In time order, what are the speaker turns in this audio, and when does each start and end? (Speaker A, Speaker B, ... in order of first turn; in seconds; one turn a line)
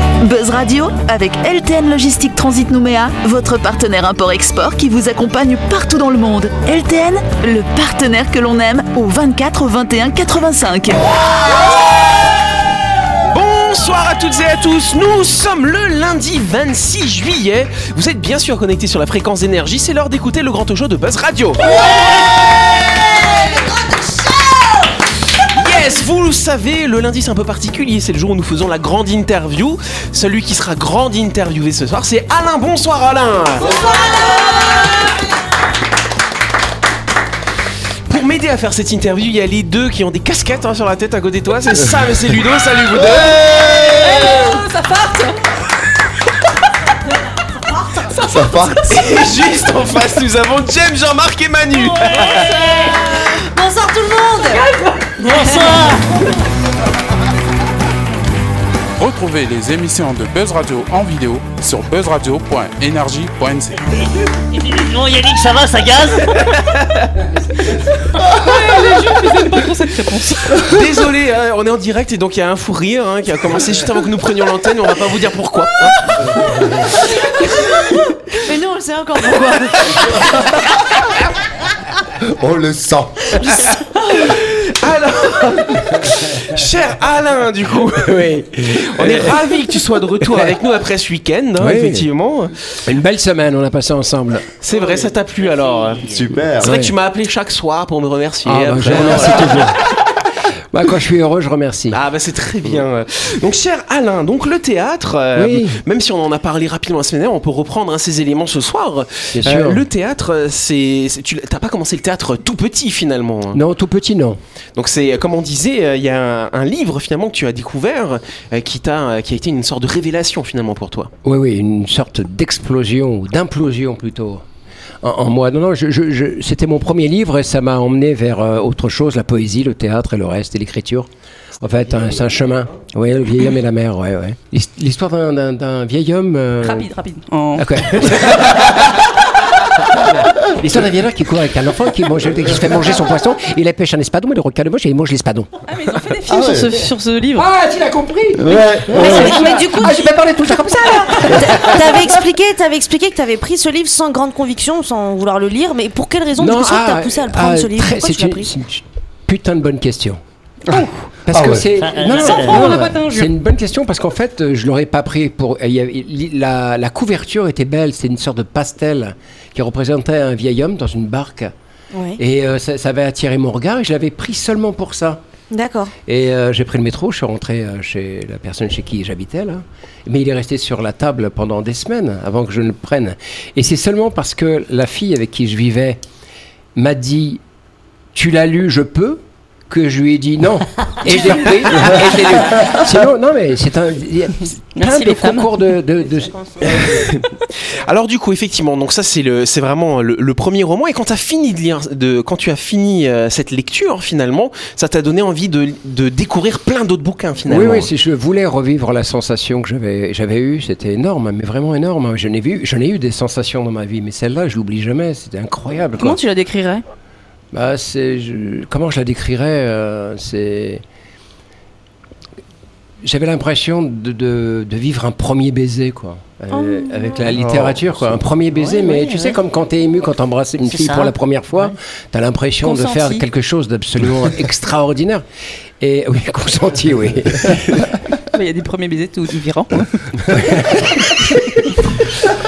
Speaker A: 0.2-11.1
Speaker B: 13.3-21.8
Speaker C: 21.8-24.6
Speaker B: 25.4-33.8
Speaker C: 33.6-35.0
Speaker B: 38.1-43.4
Speaker D: 43.1-44.4
Speaker E: 43.9-45.4
Speaker C: 47.8-48.1
Speaker E: 48.1-48.7
Speaker D: 48.2-49.2
Speaker B: 48.8-52.4
Speaker C: 51.9-54.7
Speaker F: 52.1-53.0
Speaker F: 54.5-56.2
Speaker G: 59.0-63.8
Speaker F: 63.8-66.6
Speaker E: 68.2-70.8
Speaker B: 70.6-76.2
Speaker C: 78.3-80.5
Speaker D: 82.2-83.6
Speaker C: 83.4-84.3
Speaker B: 84.1-92.8
Speaker H: 88.0-89.6
Speaker H: 90.2-90.5
Speaker H: 91.6-92.1
Speaker H: 92.8-94.5
Speaker B: 94.6-99.8
Speaker F: 95.8-96.2
Speaker D: 96.1-96.8
Speaker H: 96.6-96.9
Speaker H: 98.4-99.8
Speaker H: 100.7-102.0
Speaker B: 101.9-113.6
Speaker H: 105.3-105.8
Speaker H: 109.3-109.8
Speaker H: 113.5-114.4
Speaker B: 114.8-121.1
Speaker H: 121.2-124.5
Speaker H: 125.0-131.1
Speaker H: 131.6-136.9
Speaker E: 136.6-137.9
Speaker H: 137.6-139.2
Speaker H: 139.8-145.5
Speaker E: 145.7-147.5
Speaker D: 146.3-146.9
Speaker H: 147.3-152.2
Speaker D: 148.3-149.5
Speaker C: 149.0-158.5
Speaker H: 156.4-160.2
Speaker D: 160.7-161.7
Speaker H: 161.2-171.5
Speaker F: 161.8-162.9
Speaker E: 162.3-163.2
Speaker C: 171.9-172.2
Speaker H: 172.2-175.2
Speaker C: 175.5-175.9
Speaker H: 176.1-186.0
Speaker H: 186.8-187.4
Speaker H: 188.1-197.1
Speaker E: 191.1-192.8
Speaker E: 194.8-195.6
Speaker C: 196.0-197.1
Speaker B: 196.7-207.9
Speaker H: 207.5-216.2
Speaker E: 216.0-216.8
Speaker H: 217.5-220.8
Speaker H: 223.0-235.2
Speaker E: 226.5-227.3
Speaker D: 227.3-227.9
Speaker F: 228.6-229.4
Speaker F: 230.6-231.1
Speaker E: 232.6-233.2
Speaker H: 235.8-237.8
Speaker E: 238.3-240.7
Speaker H: 240.3-241.4